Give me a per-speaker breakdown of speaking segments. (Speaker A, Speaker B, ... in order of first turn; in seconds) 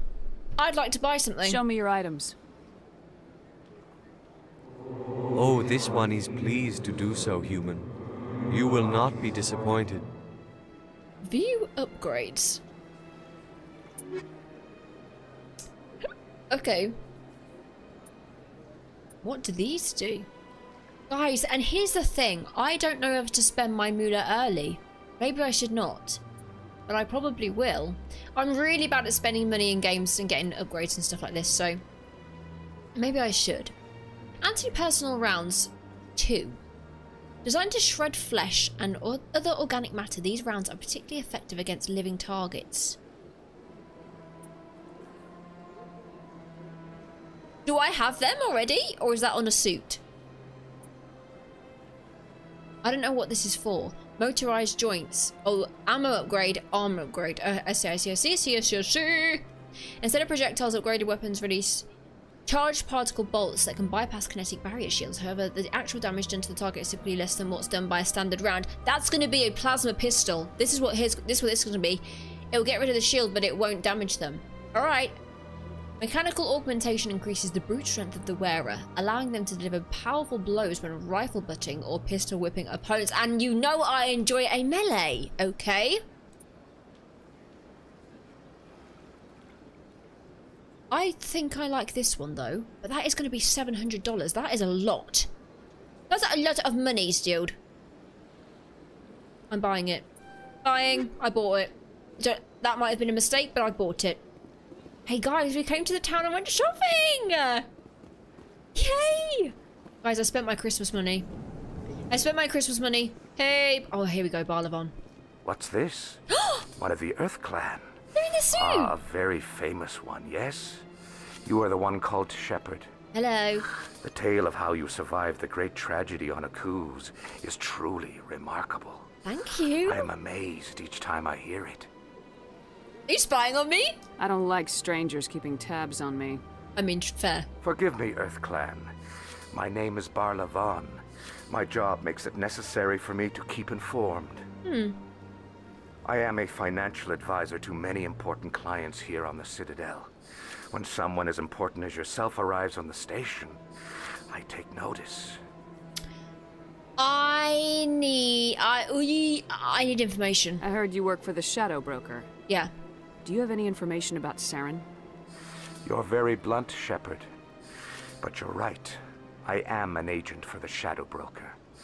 Speaker A: 0.6-1.6, 11.2-12.6, 16.5-17.0, 19.2-20.3, 21.1-26.2, 26.9-31.8, 32.9-33.7, 34.4-36.6, 37.4-43.0, 47.6-50.0, 52.8-59.4, 60.0-61.9, 62.5-75.2, 76.0-86.0, 90.9-95.3, 96.1-97.5, 99.5-100.1, 100.6-104.2, 105.0-107.7, 108.7-111.3, 112.1-114.9, 118.2-118.9, 123.1-123.6, 129.2-130.1, 133.1-133.9, 136.8-137.5, 144.6-145.0, 157.0-160.6
Speaker B: 1.4-2.3, 134.2-136.4, 160.6-162.3, 163.2-164.8
Speaker C: 5.3-7.9, 8.5-10.1
Speaker D: 115.4-116.2, 116.8-117.9, 118.5-120.8, 121.4-122.9, 124.0-129.1, 129.8-131.9, 137.6-138.9, 139.5-144.4, 146.0-150.1, 150.7-153.6, 154.3-155.4, 165.8-167.3, 168.2-171.6